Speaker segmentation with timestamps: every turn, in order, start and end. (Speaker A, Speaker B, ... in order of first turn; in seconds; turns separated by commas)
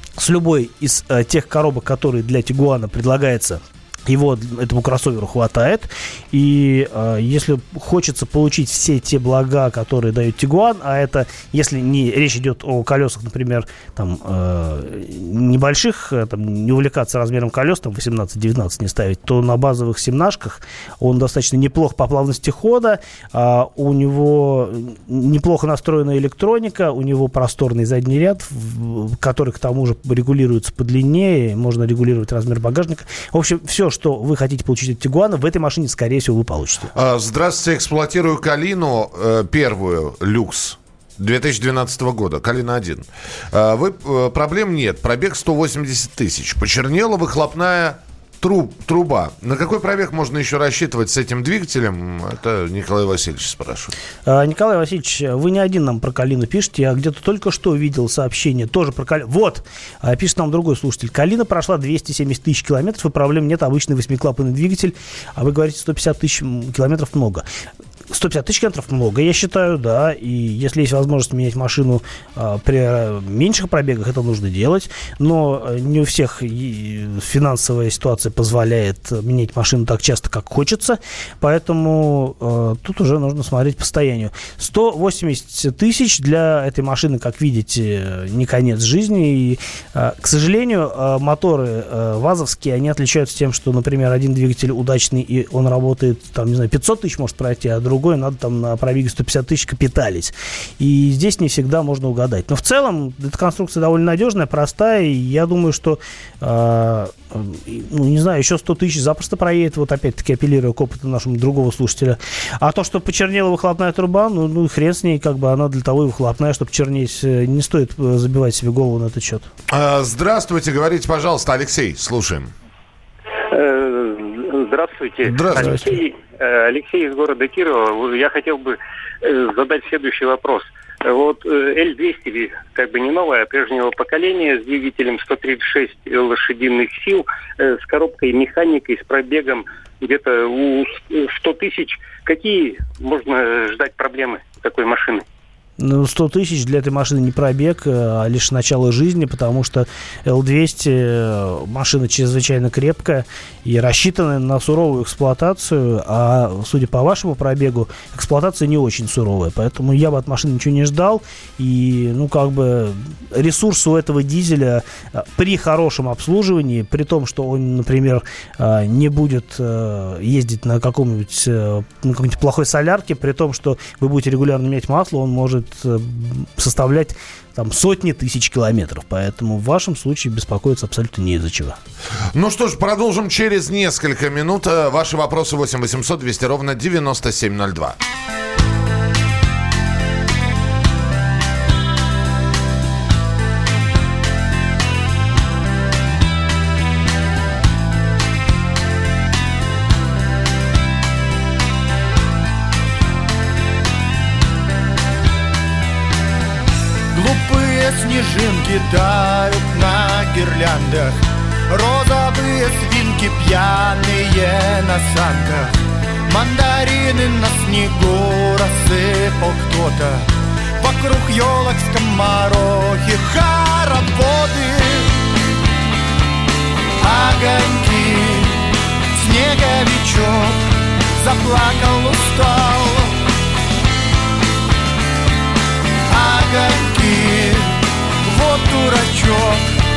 Speaker A: 0.2-36.9, Speaker B: 36.9-53.9, Speaker A: 54.2-67.4, Speaker A: 68.1-119.5, Speaker B: 119.7-122.5, Speaker C: 123.5-145.2, Speaker B: 125.2-125.9, Speaker A: 125.5-125.9, Speaker A: 145.8-181.8, Speaker B: 182.3-187.9, Speaker D: 207.1-211.2, Speaker D: 211.7-215.7, Speaker D: 216.3-220.3, Speaker D: 220.8-225.2, Speaker D: 227.0-230.6, Speaker D: 231.2-233.2, Speaker D: 236.1-239.6